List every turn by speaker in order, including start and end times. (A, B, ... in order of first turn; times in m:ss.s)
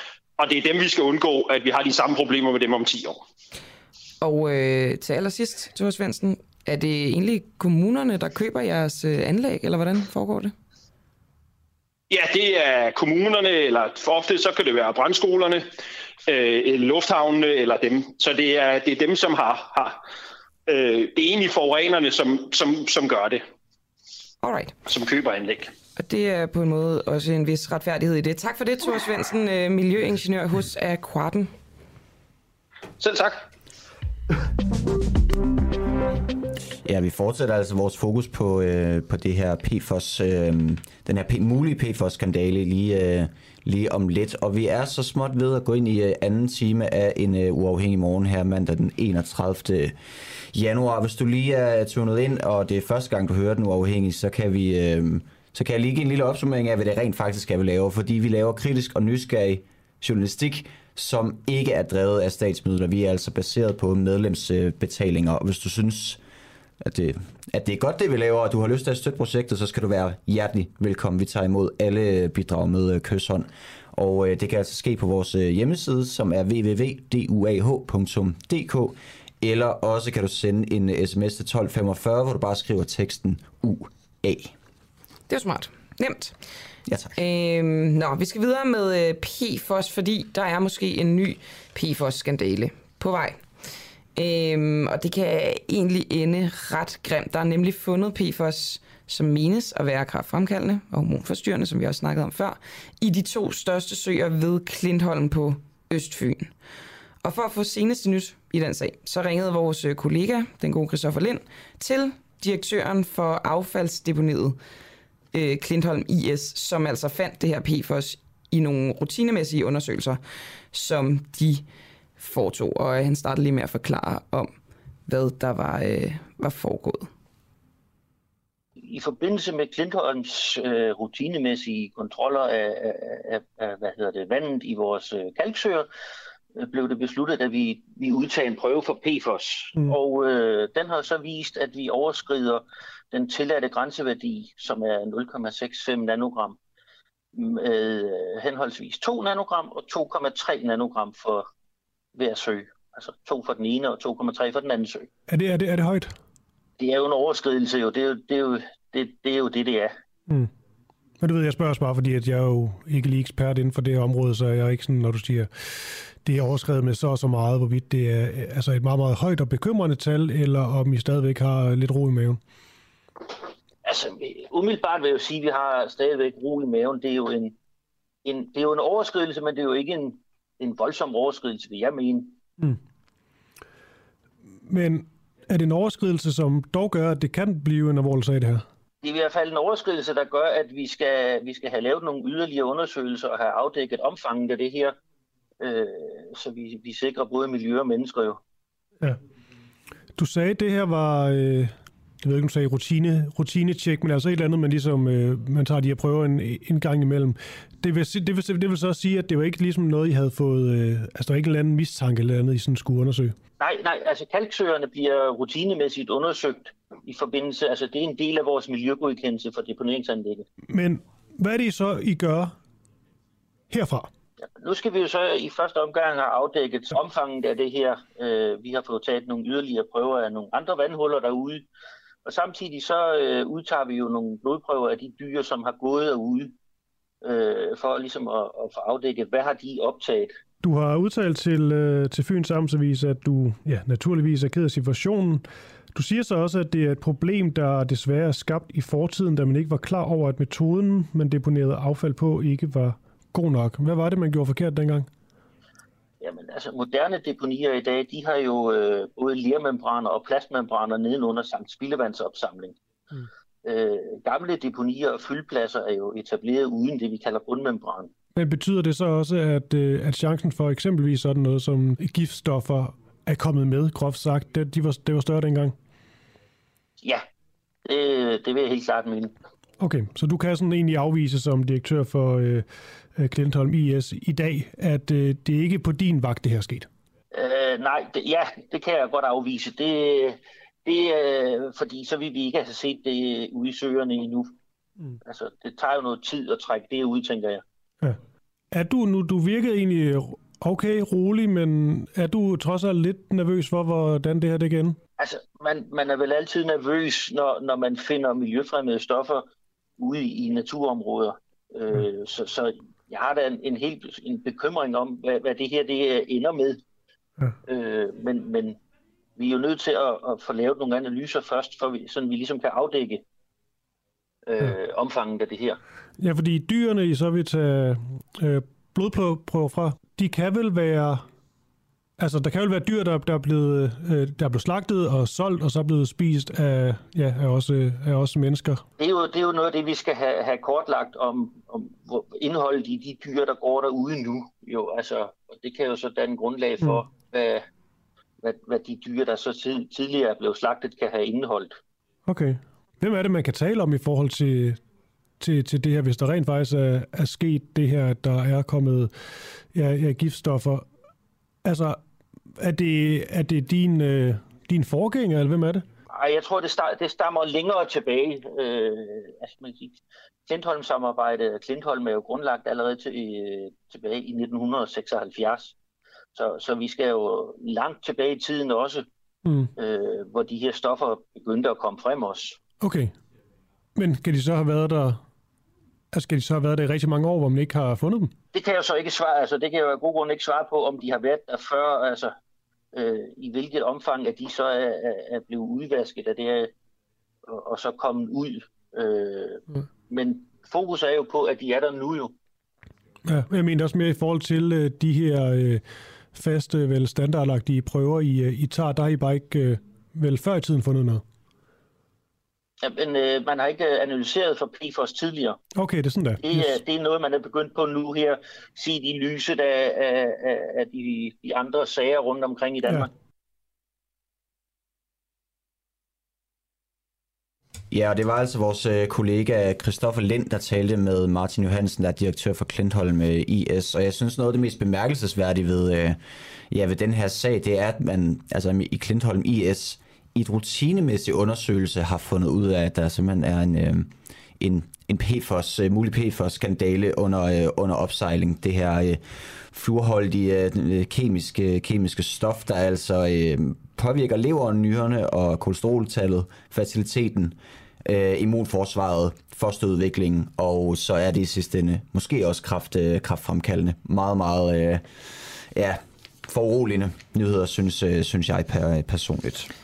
0:00.4-0:03.2 A
0:04.2-0:10.5 B
0:12.1-0:15.7 A
0:16.3-0:20.0 A
0:20.7-0:23.4 A
0:24.4-0:24.8 B
0:24.9-0:25.7 A
0:26.0-0:31.5 B
0:33.0-0:33.4 A
0:36.8-0:50.0 C
0:50.5-1:06.2 C
1:06.8-1:24.5 C
1:25.3-1:26.4 B
1:26.9-1:27.2 C
1:27.2-1:33.4 B
1:34.2-1:46.5 B
1:47.2-1:54.6 B
1:55.3-2:00.2 B
2:00.7-2:01.6 B
2:02.2-2:04.5 B
2:05.1-2:07.1 B
2:08.8-2:15.9 D
2:16.6-2:26.6 D
2:27.4-2:31.5 D
2:32.2-2:35.1 D
2:35.3-2:36.2 E
2:36.8-2:39.9 D
2:41.2-2:45.5 E
2:46.2-2:52.4 E
2:53.8-2:57.6 D
2:58.2-3:02.4 D
3:04.7-3:08.7 E
3:09.0-3:15.0 D
3:15.6-3:18.4 D
3:20.2-3:33.4 E
3:33.6-3:40.5 D
3:40.7-3:42.6 E
3:43.7-3:44.1 E
3:44.6-3:51.6 D
3:52.3-3:56.5 D
3:57.2-4:00.3 D
4:00.6-4:15.1 E
4:16.2-4:22.8 D
4:23.6-4:28.1 D
4:28.4-4:35.8 E
4:37.9-4:39.3 D
4:39.8-4:46.9 E
4:47.3-4:54.5 D
4:55.2-4:57.6 D
4:58.7-5:05.0 E
5:05.2-5:09.5 D
5:10.0-5:16.8 D
5:17.7-5:18.8 D
5:19.4-5:23.2 D
5:24.5-5:25.8 D
5:26.2-5:31.2 E
5:32.2-5:38.8 E
5:39.0-5:47.6 D
5:48.4-5:51.8 D
5:52.3-5:54.8 E
5:55.4-5:59.1 E
5:59.7-6:00.9 E
6:01.6-6:02.0 E
6:02.6-6:05.8 E
6:06.1-6:15.8 D
6:16.4-6:19.1 D
6:19.4-6:19.7 E
6:19.8-6:22.6 D
6:22.8-6:23.2 E
6:24.0-6:25.2 E
6:26.1-6:28.3 E
6:28.5-6:32.3 D
6:32.9-6:36.7 D
6:37.5-6:42.3 D
6:43.2-6:51.2 E
6:52.8-6:55.6 D
6:55.8-6:56.8 E
6:56.4-7:03.1 D
7:07.9-7:16.2 C
7:16.7-7:45.0 C
7:45.7-7:49.7 C